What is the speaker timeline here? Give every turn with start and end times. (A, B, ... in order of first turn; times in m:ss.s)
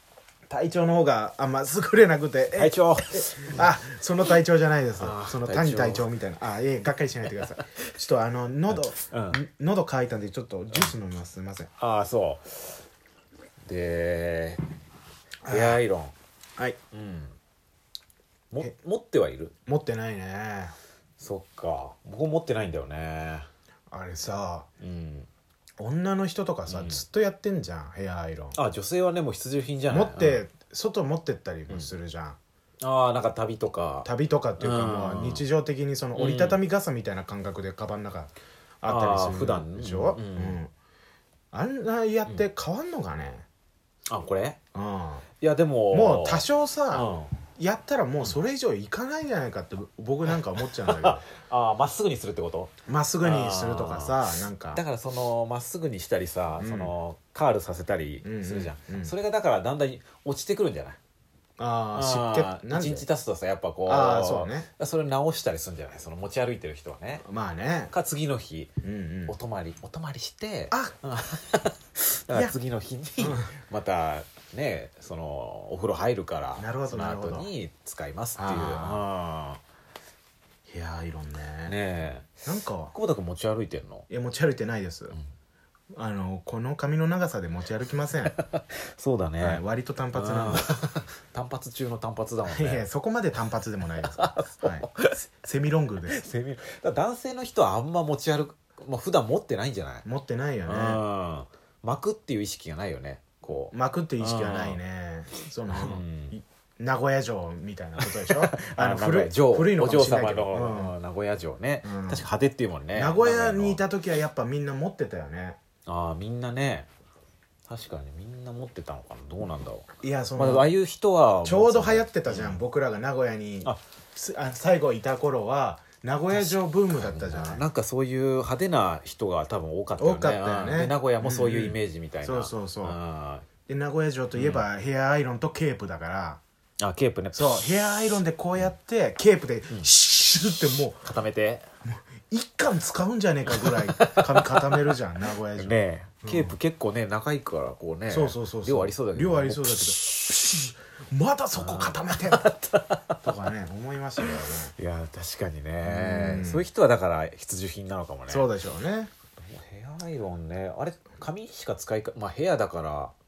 0:00.5-0:11.7 A
0:02.5-0:03.7 B
0:05.0-0:06.1 B
0:08.7-0:09.4 B
0:11.8-0:12.8 B
0:13.6-0:14.6 B
0:15.4-0:15.8 A
0:15.5-0:16.1 B
0:16.9-0:17.4 B
0:18.5-0:19.5 B
0:19.7-0:20.8 A
0:21.2-0:23.5 B
0:23.9-0:24.7 A
0:24.8-0:25.3 B
0:25.8-0:28.6 A
0:26.7-0:27.0 B
0:28.5-0:30.4 B
0:29.9-0:32.4 A
0:32.8-0:34.1 B
0:34.0-0:40.7 A
0:34.6-0:35.4 B
0:36.2-0:36.6 B
0:38.8-0:40.6 B
0:41.5-0:43.4 A
0:44.1-0:44.6 B
0:44.7-0:45.2 A
0:45.4-0:47.3 B
0:45.9-0:47.0 A
0:47.6-0:51.2 A
0:50.6-0:54.2 B
0:52.9-0:54.8 A
0:54.7-1:01.0 B
0:56.6-0:56.9 A
0:58.2-0:59.1 A
1:01.6-1:03.1 A
1:01.9-1:07.2 B
1:03.8-1:04.7 A
1:07.2-1:07.9 A
1:07.9-1:08.7 B
1:08.8-1:09.4 A
1:09.3-1:19.6 B
1:13.2-1:13.5 A
1:16.6-1:17.5 A
1:18.4-1:19.0 A
1:20.7-1:21.8 A
1:21.6-1:22.4 B
1:22.4-1:22.9 A
1:22.9-1:24.0 B
1:24.1-1:25.1 A
1:25.9-1:28.3 A
1:28.3-1:29.6 B
1:29.4-1:30.7 A
1:30.1-1:32.8 B
1:32.4-1:36.2 A
1:34.0-1:35.3 B
1:36.1-1:40.0 B
1:40.0-1:41.0 A
1:40.7-1:44.8 B
1:43.7-1:50.9 A
1:45.7-1:46.4 B
1:48.0-1:53.8 B
1:51.8-1:52.2 A
1:52.9-1:55.6 A
1:55.8-1:56.9 B
1:57.7-2:02.6 B
2:00.0-2:00.7 A
2:01.4-2:07.6 A
2:06.3-2:13.5 B
2:10.0-2:13.0 A
2:13.7-2:16.4 A
2:14.3-2:14.6 B
2:16.8-2:17.6 B
2:17.3-2:21.0 A
2:21.0-2:21.6 B
2:21.8-2:26.6 A
2:23.5-2:25.0 B
2:25.6-2:30.4 B
2:28.1-2:32.5 A
2:31.6-2:33.2 B
2:33.2-2:34.7 A
2:34.2-2:38.5 B
2:35.8-2:36.7 A
2:38.3-2:39.1 A
2:39.4-2:43.1 B